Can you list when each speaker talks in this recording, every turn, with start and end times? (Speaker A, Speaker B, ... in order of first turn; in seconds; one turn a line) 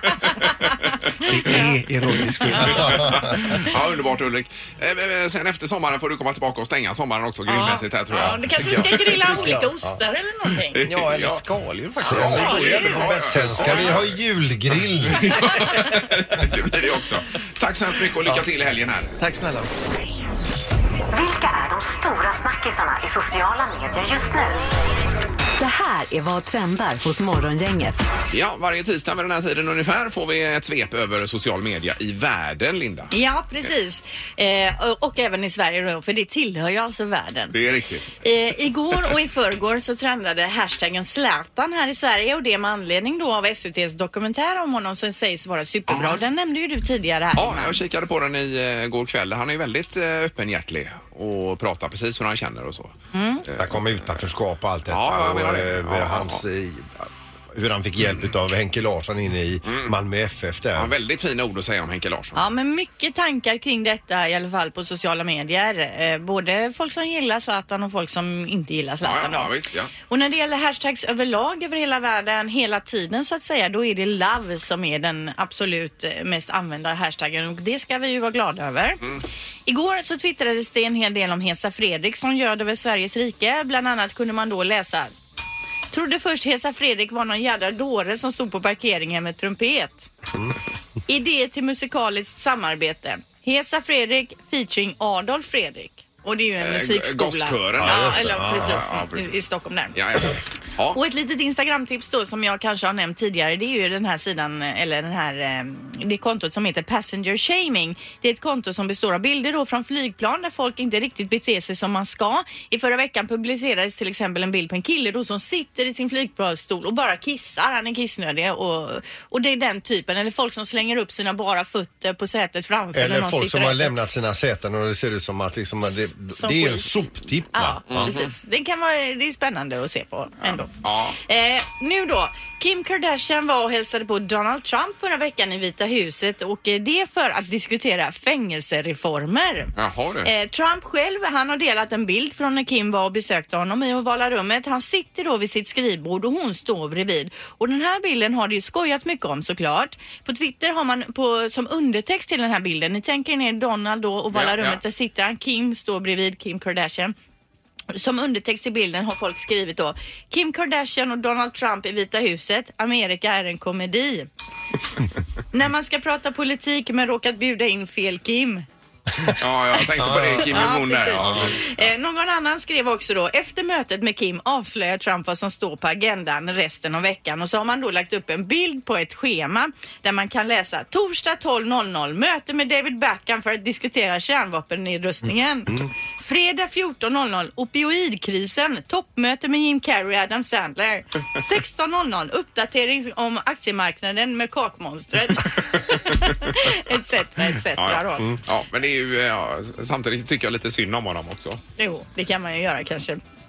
Speaker A: 1.2-3.3
Speaker B: 1.4-1.8
Speaker B: 2.5-3.0
Speaker C: 2.5-3.6
Speaker D: 2.8-9.4
Speaker B: 7.5-10.8
Speaker A: 8.2-9.7
Speaker D: 10.7-11.4
Speaker A: 10.8-14.0
Speaker D: 12.0-14.2
Speaker C: 12.0-15.5
Speaker B: 12.2-13.1
Speaker D: 15.0-19.1
Speaker A: 19.2-19.7
Speaker E: 21.1-24.7
Speaker E: 25.6-28.0
Speaker D: 28.3-33.1
Speaker B: 33.1-37.5
Speaker D: 37.5-38.1
Speaker B: 38.2-47.8
Speaker D: 47.4-52.9
Speaker B: 53.1-53.4
Speaker D: 53.5-54.0
Speaker C: 53.6-60.9
Speaker D: 54.9-56.4
Speaker D: 59.7-59.9
Speaker D: 60.8-62.4
Speaker B: 62.4-69.5
Speaker D: 69.0-69.9
Speaker B: 70.1-79.0
Speaker B: 79.7-85.1
Speaker B: 85.9-90.1
Speaker B: 91.1-100.0
Speaker D: 96.6-99.4
Speaker C: 97.8-98.8
Speaker D: 99.9-101.0
Speaker B: 100.9-123.9
Speaker C: 122.9-128.2
Speaker B: 126.3-126.9
Speaker B: 127.5-130.7
Speaker D: 127.9-128.3
Speaker D: 130.5-131.2
Speaker B: 131.2-139.7
Speaker D: 139.8-140.3
Speaker B: 140.2-157.2
Speaker D: 154.3-154.8
Speaker B: 157.9-164.3
Speaker B: 165.5-168.7
Speaker D: 169.3-171.7
Speaker C: 169.9-171.6
Speaker B: 170.4-198.3
Speaker D: 197.8-201.6
Speaker B: 201.8-203.2